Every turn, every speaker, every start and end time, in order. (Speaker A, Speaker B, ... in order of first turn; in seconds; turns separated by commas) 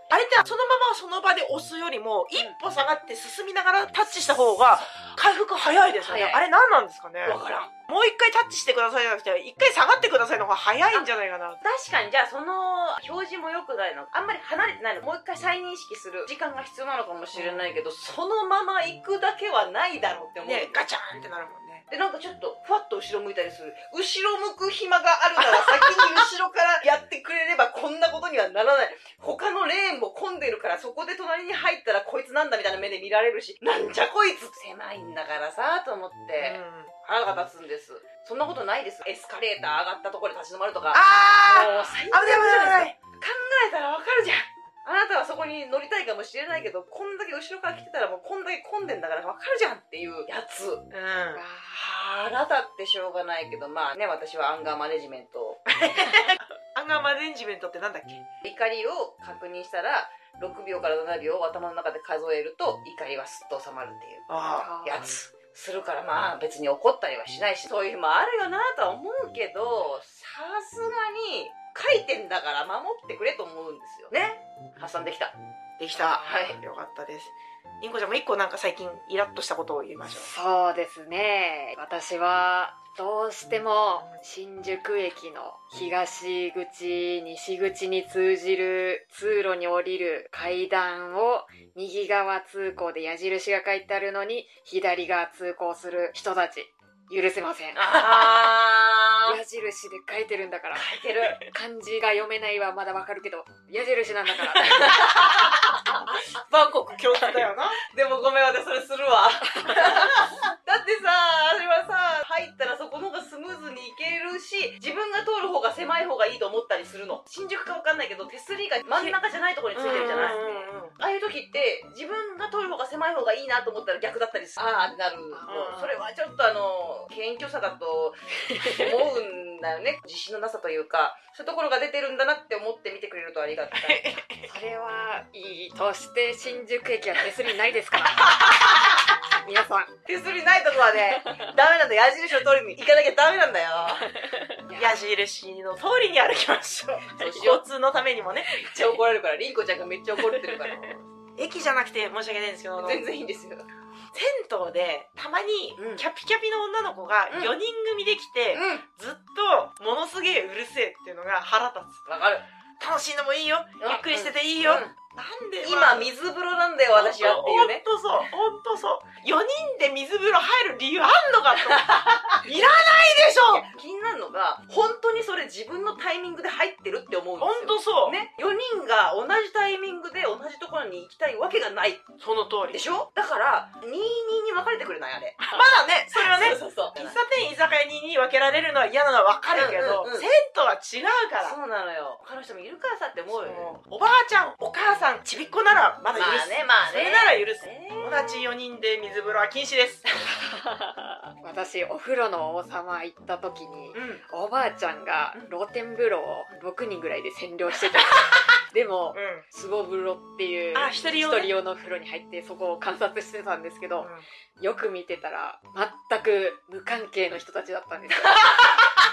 Speaker A: 0.1-11.6, Speaker B: 6.0-6.4, Speaker C: 6.1-6.4, Speaker B: 7.2-7.7, Speaker B: 11.6-20.8, Speaker A: 17.3-17.7, Speaker A: 20.4-21.9, Speaker B: 21.9-50.9, Speaker A: 25.5-26.1, Speaker A: 36.4-36.9, Speaker A: 40.9-42.9, Speaker C: 41.5-42.0, Speaker A: 50.9-51.4, Speaker C: 51.3-51.8, Speaker B: 51.7-55.6, Speaker A: 55.7-58.2, Speaker B: 58.4-64.3, Speaker A: 64.3-64.7, Speaker C: 64.6-65.1, Speaker B: 64.8-75.3, Speaker A: 75.8-80.3, Speaker C: 76.0-76.4, Speaker B: 76.0-76.6, Speaker C: 80.1-98.5, Speaker B: 97.8-99.4, Speaker C: 99.2-100.9, Speaker B: 100.7-101.4, Speaker C: 101.4-105.1, Speaker B: 104.6-106.0, Speaker A: 104.8-107.8, Speaker B: 107.8-134.0, Speaker C: 109.6-109.9, Speaker A: 119.7-120.9, Speaker C: 125.3-125.8, Speaker A: 125.5-126.0, Speaker C: 128.4-129.1, Speaker A: 133.7-134.5, Speaker C: 134.5-138.8, Speaker B: 138.2-139.0, Speaker C: 139.4-139.9, Speaker B: 140.1-144.1, Speaker C: 141.2-141.5, Speaker C: 144.1-145.0, Speaker A: 144.8-148.5, Speaker B: 147.1-147.6, Speaker C: 148.5-148.8, Speaker B: 148.5-151.0, Speaker A: 151.4-153.0, Speaker B: 152.8-153.7, Speaker A: 154.1-162.1, Speaker B: 155.8-156.0, Speaker B: 157.3-157.6, Speaker B: 158.5-158.8, Speaker B: 162.1-162.4, Speaker A: 162.8-166.1, Speaker B: 163.8-164.9, Speaker B: 165.6-167.8, Speaker A: 166.9-173.6, Speaker B: 171.6-182.1, Speaker A: 177.4-178.2, Speaker A: 182.2-182.8, Speaker B: 182.7-187.2, Speaker A: 185.4-191.6, Speaker B: 189.5-190.3, Speaker B: 191.4-193.8, Speaker A: 193.3-200.0, Speaker B: 196.1-198.5, Speaker C: 200.3-218.5, Speaker B: 203.9-204.2, Speaker A: 209.1-209.4, Speaker A: 210.7-211.5, Speaker A: 214.0-214.2, Speaker B: 218.5-218.8